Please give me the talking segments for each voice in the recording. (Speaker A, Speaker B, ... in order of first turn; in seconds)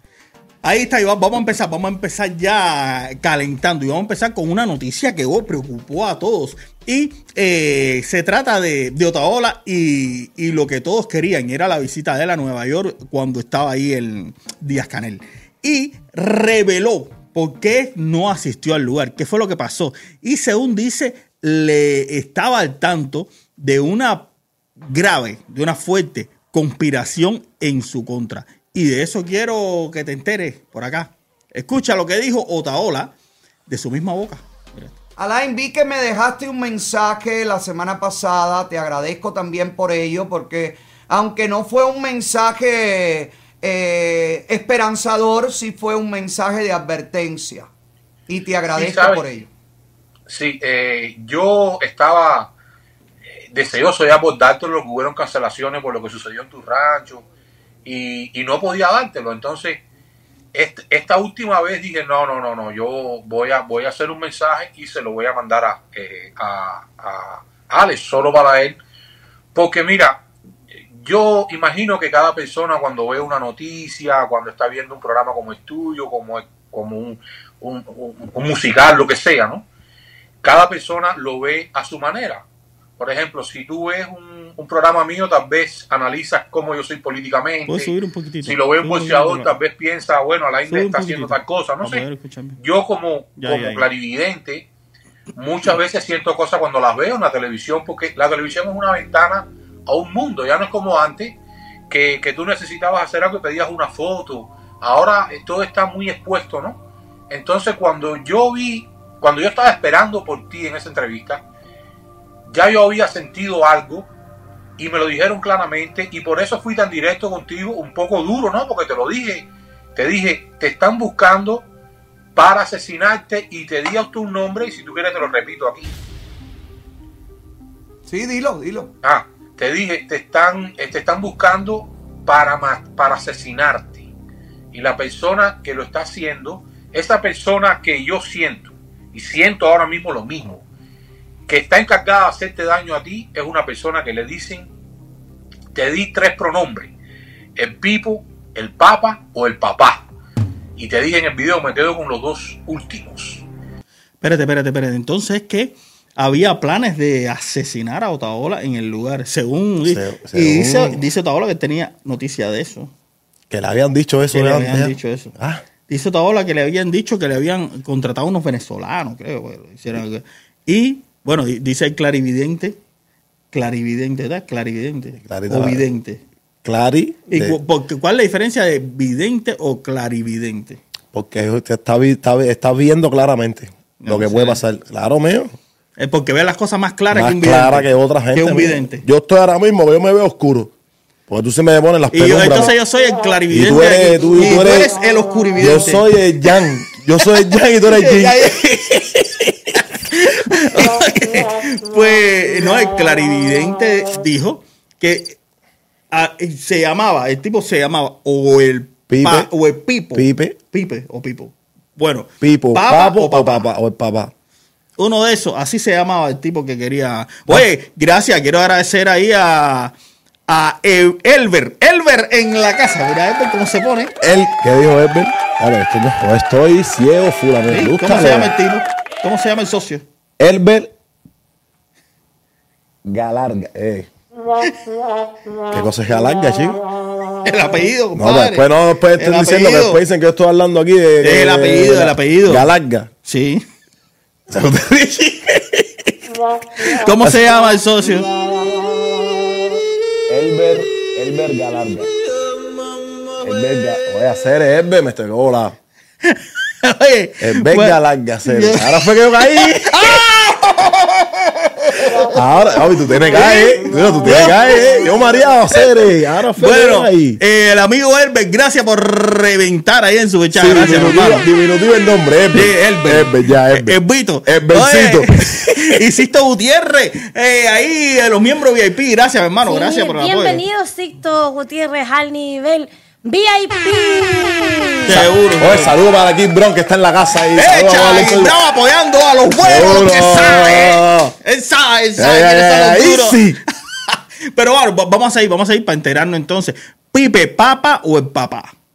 Speaker A: 0.6-24.3, 24.8-33.1, 33.7-34.9, 87.7-89.5, 90.7-92.6, 93.4-93.8, 154.2-162.9, 164.3-165.3, 165.9-172.8, 173.5-176.2, 177.3-180.8, 184.0-184.6, 186.0-189.0, 192.1-196.1, 197.2-205.4, 206.1-213.7, 215.0-219.9, 220.5-224.1, 227.7-230.0, 237.4-240.0, 241.2-242.7, 243.2-243.6, 244.6-246.1, 246.8-248.3, 256.2-260.9, 263.3-264.8, 265.7-271.5, 272.5-280.6, 285.0-285.9, 287.6-293.5, 294.1-298.7
Speaker B: 35.2-47.7, 48.3-49.5, 128.1-128.9
Speaker C: 48.7-49.2, 50.3-52.5, 53.5-57.2, 57.8-59.8, 60.5-68.8, 69.5-70.2, 70.9-79.7, 80.4-82.4, 83.0-87.9, 88.4-92.0, 92.6-94.7, 95.3-101.4, 101.9-106.8, 107.3-111.4, 112.5-114.1, 114.8-121.6, 122.3-125.9, 129.0-134.1, 134.7-140.6, 141.5-144.7, 145.7-146.9, 147.6-150.1, 150.8-153.4
Speaker D: 159.8-161.0, 163.5-165.6, 175.2-175.8, 176.6-177.6, 181.1-185.5, 187.1-190.7, 191.3-192.7, 193.5-194.9, 195.6-198.5, 209.1-209.5, 210.1-210.6, 212.4-214.3, 224.2-228.5, 230.4-230.9, 233.0-234.1, 235.7-236.8, 238.2-243.1, 250.3-252.1, 253.4-255.8, 257.4-260.2, 262.0-267.4, 270.5-276.0, 285.1-288.6, 289.6-291.3, 292.2-293.6
Speaker E: 279.6-285.2